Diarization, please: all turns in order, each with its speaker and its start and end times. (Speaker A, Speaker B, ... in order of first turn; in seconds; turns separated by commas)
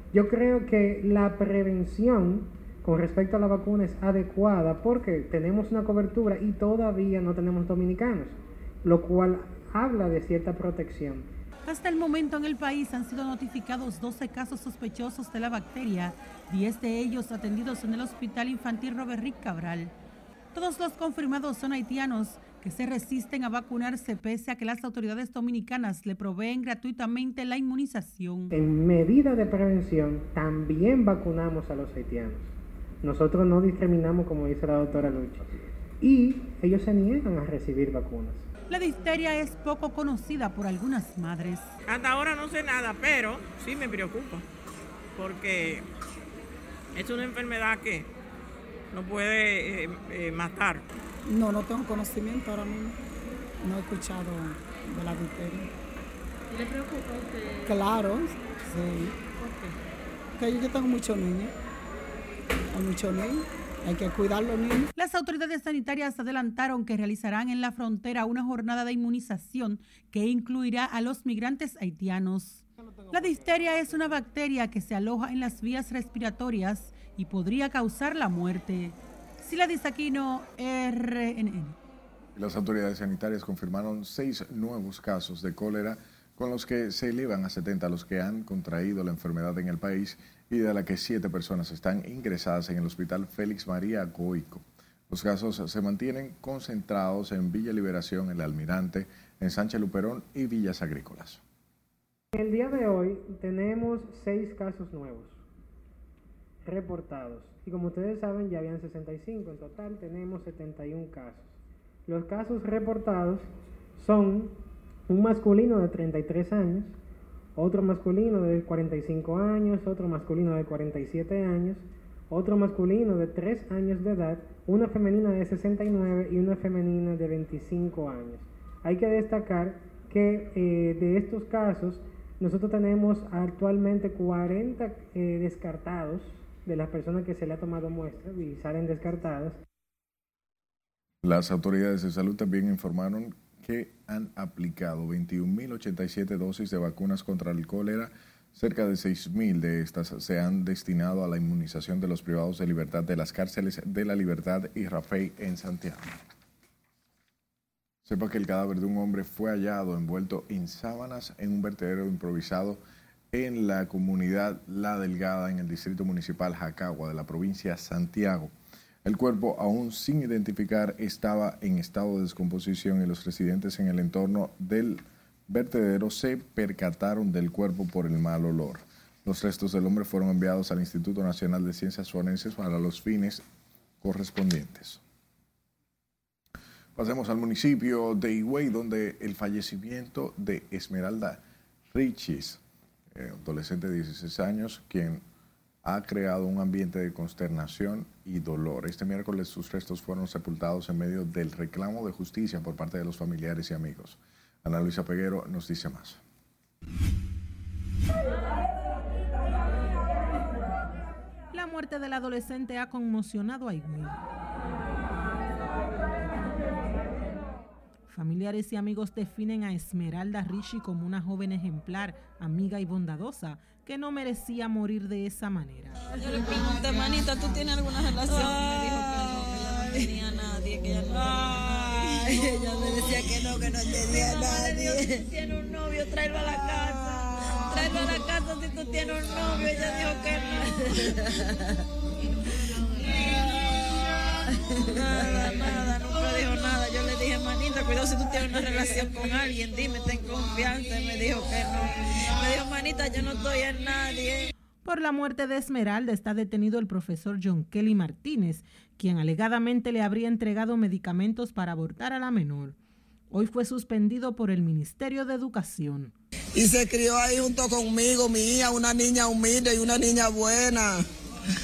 Speaker A: 0.1-11.3, Speaker B: 11.7-19.9, Speaker B: 20.5-28.5, Speaker A: 28.5-32.5, Speaker A: 33.0-38.4, Speaker B: 38.7-41.7, Speaker C: 41.9-44.4, Speaker C: 45.2-45.9, Speaker C: 46.9-48.1, Speaker C: 48.9-50.8, Speaker D: 51.3-53.0, Speaker D: 53.6-55.7, Speaker D: 57.6-59.2, Speaker D: 60.4-61.5, Speaker D: 62.7-64.9, Speaker B: 65.0-81.8, Speaker E: 82.3-101.4, Speaker A: 102.3-105.4, Speaker A: 106.6-114.5, Speaker A: 115.1-117.0, Speaker A: 117.5-139.6, Speaker E: 141.2-156.1, Speaker E: 158.0-162.8, Speaker E: 163.3-168.5, Speaker E: 169.0-183.4, Speaker E: 184.0-185.0, Speaker E: 186.9-192.6, Speaker E: 193.1-195.2, Speaker E: 195.8-206.2, Speaker F: 211.5-214.2, Speaker F: 218.1-226.0, Speaker G: 226.2-240.7, Speaker G: 245.0-254.4, Speaker F: 254.8-262.8, Speaker F: 263.3-266.1, Speaker H: 267.4-270.0